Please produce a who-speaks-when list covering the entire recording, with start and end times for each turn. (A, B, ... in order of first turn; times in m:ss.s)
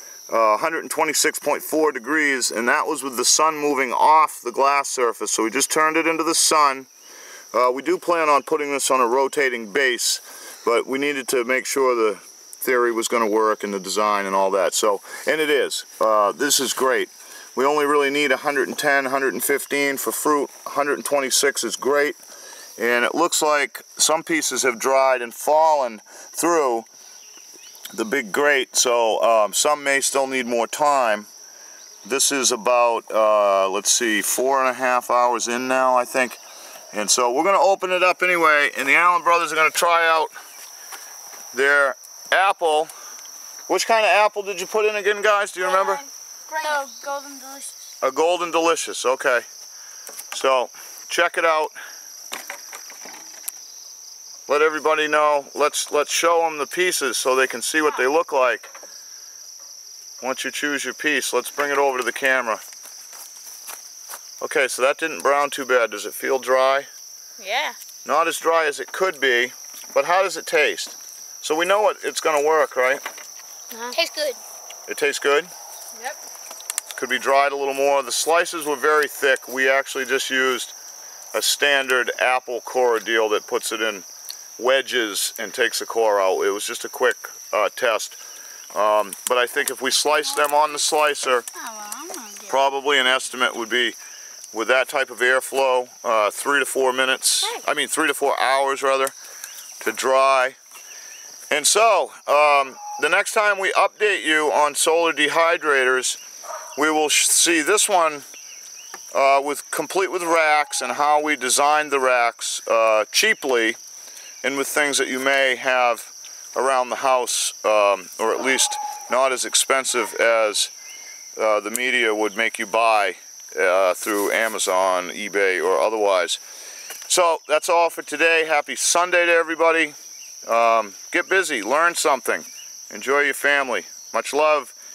0:00.3-0:06.9 A
0:07.5-0:22.2 A
0:22.8-0:26.9 A
0:27.9-0:31.3 A
0:32.0-0:36.4 A
0:36.9-0:40.3 A
0:41.5-0:42.9 A
0:43.7-0:46.0 A
0:45.8-0:47.7 B
0:48.0-0:49.4 A
0:50.3-0:51.7 A
0:54.5-0:58.7 A
1:00.2-1:02.6 A
1:04.4-1:06.9 A
1:07.4-1:07.8 B
1:08.0-1:13.0 A
1:13.7-1:14.4 B
1:14.9-1:15.5 A
1:16.9-1:20.7 A
1:21.3-1:24.1 A
1:24.6-1:28.2 A
1:28.7-1:31.4 A
1:31.6-1:32.5 B
1:32.5-1:34.0 A
1:34.5-1:39.1 A
1:39.8-1:40.6 A
1:41.5-1:46.2 A
1:46.8-1:48.2 A
1:49.1-1:53.8 A
1:54.4-2:00.7 A
2:01.4-2:06.4 A
2:07.1-2:09.9 A
2:10.5-2:14.7 A